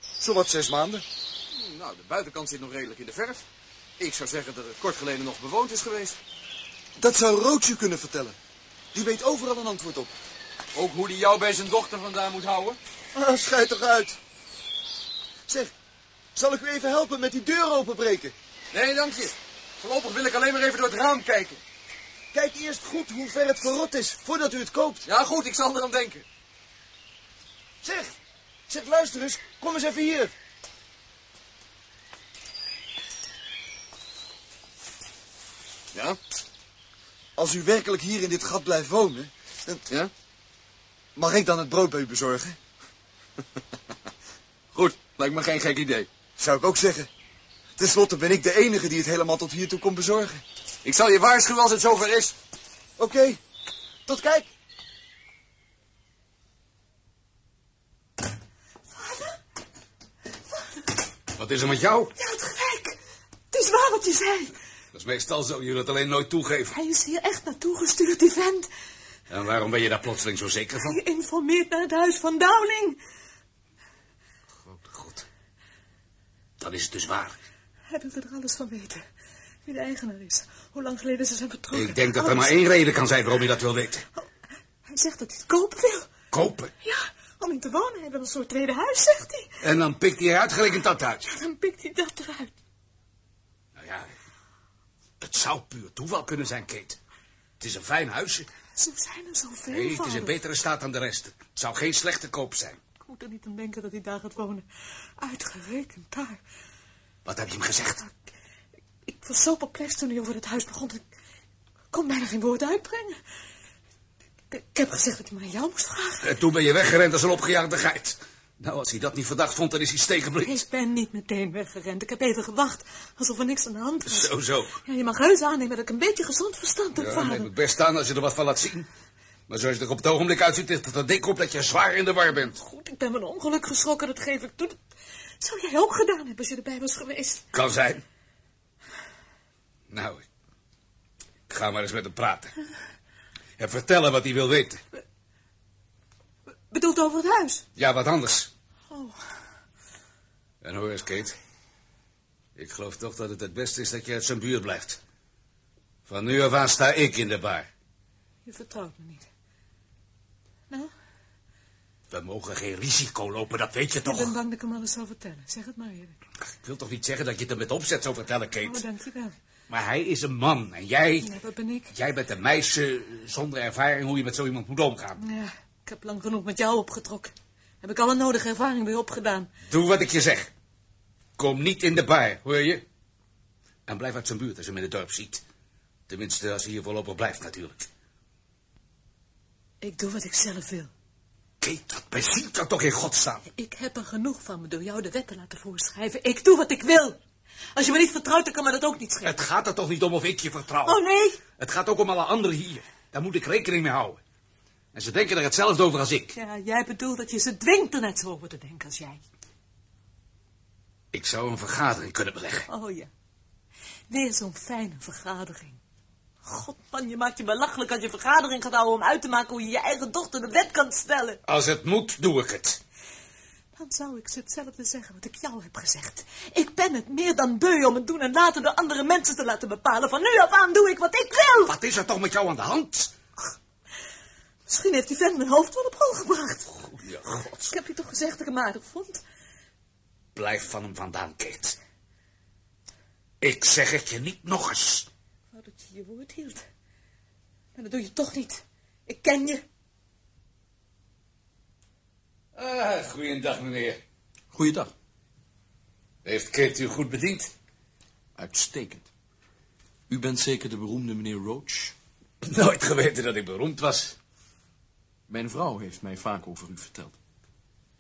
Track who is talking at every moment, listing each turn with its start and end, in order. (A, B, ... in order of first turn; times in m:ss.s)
0:00.2-0:01.0 A
0:01.5-0:03.4 B
0:04.0-0:06.2 B
0:07.0-0:08.4 A
0:08.9-0:10.1 A
0:10.7-0:12.8 B
0:13.1-0:14.2 A
0:15.5-0:15.7 A
0:16.4-0:18.3 A
0:18.7-0:21.6 B
0:22.3-0:25.0 A
0:25.1-0:26.2 B
0:27.8-0:28.1 A
0:28.7-0:30.3 A
0:37.4-0:39.8 A
0:41.2-0:42.6 A
0:44.7-0:46.1 B
0:46.4-0:47.1 A
0:47.8-0:50.4 A
0:50.8-0:52.4 B
0:53.0-0:53.4 A
0:54.1-0:54.5 A
0:59.0-0:59.4 C
1:01.4-1:02.1 D
1:02.2-1:03.0 C
1:03.5-1:04.5 C
1:04.9-1:06.7 D
1:06.7-1:08.7 C
1:09.3-1:11.0 D
1:10.8-1:13.0 C
1:14.7-1:15.3 D
1:16.6-1:17.4 D
1:17.9-1:19.0 C
1:19.7-1:22.6 C
1:21.7-1:24.0 D
1:24.9-1:26.1 C
1:26.3-1:26.7 D
1:26.8-1:29.5 C
1:29.6-1:31.2 D
1:31.2-1:32.5 C
1:33.8-1:34.1 D
1:35.2-1:37.0 D
1:37.6-1:38.5 D
1:38.8-1:40.4 C
1:39.7-1:42.8 D
1:43.0-1:44.6 C
1:45.2-1:46.4 C
1:47.2-1:48.0 D
1:49.1-1:51.0 C
1:51.9-1:53.2 C
1:54.5-1:56.3 C
1:56.2-2:00.6 D
2:00.4-2:04.3 C
2:04.1-2:04.8 D
2:04.8-2:07.5 C
2:07.0-2:08.9 D
2:09.5-2:12.6 D
2:12.3-2:14.8 C
2:15.4-2:17.4 C
2:17.5-2:18.0 D
2:19.9-2:20.2 D
2:21.5-2:22.6 D
2:23.6-2:24.8 D
2:26.7-2:27.6 C
2:27.8-2:28.5 D
2:28.9-2:29.2 C
2:30.6-2:31.4 D
2:32.6-2:35.0 D
2:36.1-2:37.7 D
2:38.4-2:39.3 C
2:42.1-2:44.4 D
2:44.0-2:46.2 C
2:46.4-2:48.8 D
2:48.6-2:49.4 C
2:49.7-2:51.3 D
2:51.2-2:51.9 C
2:51.9-2:55.2 D
2:55.2-2:59.5 C
2:59.7-3:00.5 D
3:01.4-3:02.8 D
3:03.9-3:05.4 D
3:06.1-3:07.9 D
3:09.8-3:10.9 C
3:11.6-3:13.4 D
3:13.5-3:17.2 C
3:17.8-3:19.4 C
3:19.2-3:21.0 D
3:20.8-3:21.4 C
3:21.6-3:24.2 D
3:24.9-3:26.4 D
3:26.4-3:29.2 C
3:31.1-3:32.7 D
3:32.7-3:33.1 C
3:34.1-3:35.8 C
3:36.4-3:41.4 C
3:41.5-3:42.8 D
3:43.8-3:51.7 C
3:51.6-3:53.1 D
3:54.7-3:56.9 C
3:57.0-3:57.7 D
3:57.7-3:59.2 C
4:00.4-4:01.8 D
4:03.4-4:05.1 D
4:05.5-4:06.6 C
4:07.8-4:09.6 C
4:12.6-4:14.0 D
4:14.5-4:14.9 E
4:16.2-4:17.5 D
4:18.4-4:19.1 E
4:20.1-4:22.0 E
4:22.4-4:24.2 D
4:25.3-4:27.2 E